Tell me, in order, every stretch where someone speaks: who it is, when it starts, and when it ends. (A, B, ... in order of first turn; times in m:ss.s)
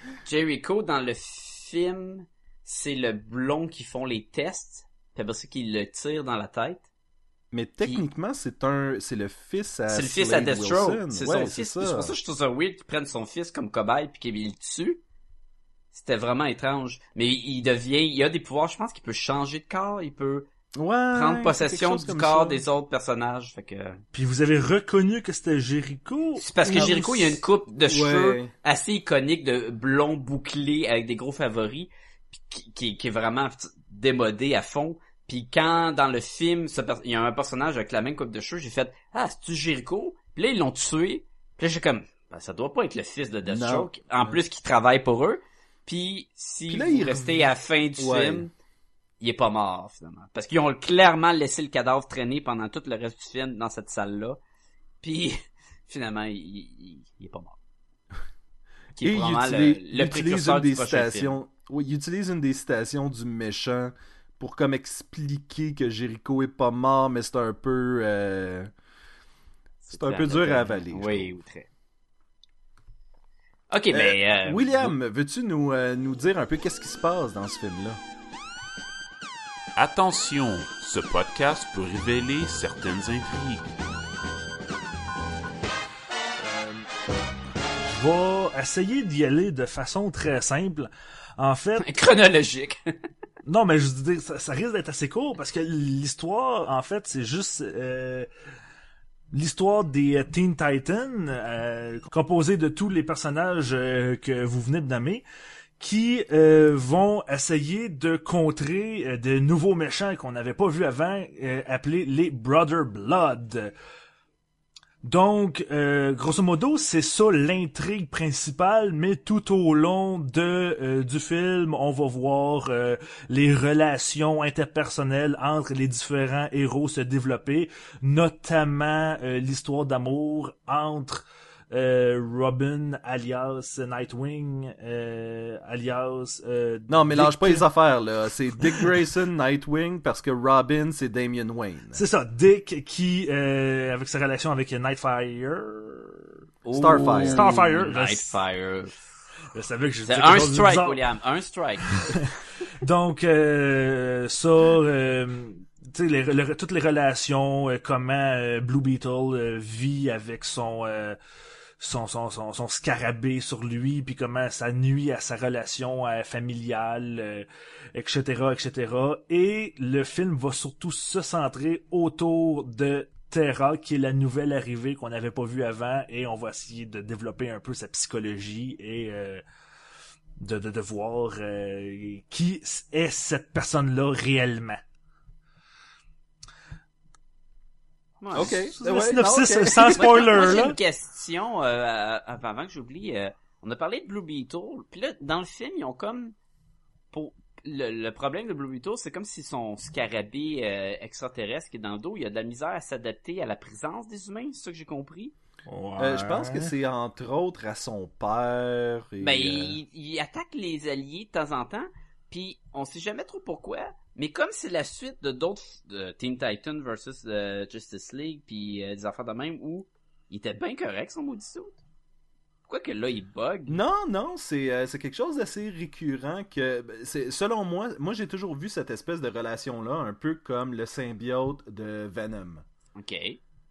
0:00.2-0:06.9 A
0:07.5-0:12.1 B
0:09.9-0:15.0 A
0:15.9-0:20.5 A
0:20.8-0:22.6 B
0:21.1-0:24.0 A
0:24.1-0:27.3 C
0:26.4-0:48.5 A
0:26.7-0:27.0 B
0:27.8-0:28.5 B
0:43.4-0:44.4 B
0:46.7-0:48.5 B
0:49.2-0:54.4 A
0:55.0-0:55.4 A
0:55.9-0:57.6 A
0:59.0-1:01.3 A
0:59.0-1:08.7 B
1:09.8-1:11.7 A
1:09.9-1:11.3 B
1:13.7-1:14.9 A
1:13.9-1:18.0 B
1:19.8-1:23.7 D
1:26.4-1:26.8 C
1:27.9-1:31.8 C
1:31.8-1:32.8 A
1:33.4-1:38.3 C
1:39.3-1:45.2 C
1:45.8-1:53.7 C
1:55.0-2:17.7 C
2:16.9-2:22.0 B
2:21.9-2:26.3 C
2:26.6-2:28.9 A
2:26.7-2:27.5 B
2:26.9-2:28.4 C
2:29.5-2:31.0 C
2:30.1-2:32.2 A
2:31.9-2:41.2 C
2:41.8-2:59.4 C
3:00.4-3:04.8 C
3:08.2-3:08.6 A
3:08.3-3:10.4 B
3:08.4-3:10.8 C
3:10.0-3:16.3 A
3:17.1-3:25.3 A
3:25.7-3:26.7 C
3:26.0-3:29.8 B
3:29.2-3:41.8 A
3:42.7-3:43.8 A
3:43.7-3:52.6 B
3:52.9-3:53.4 A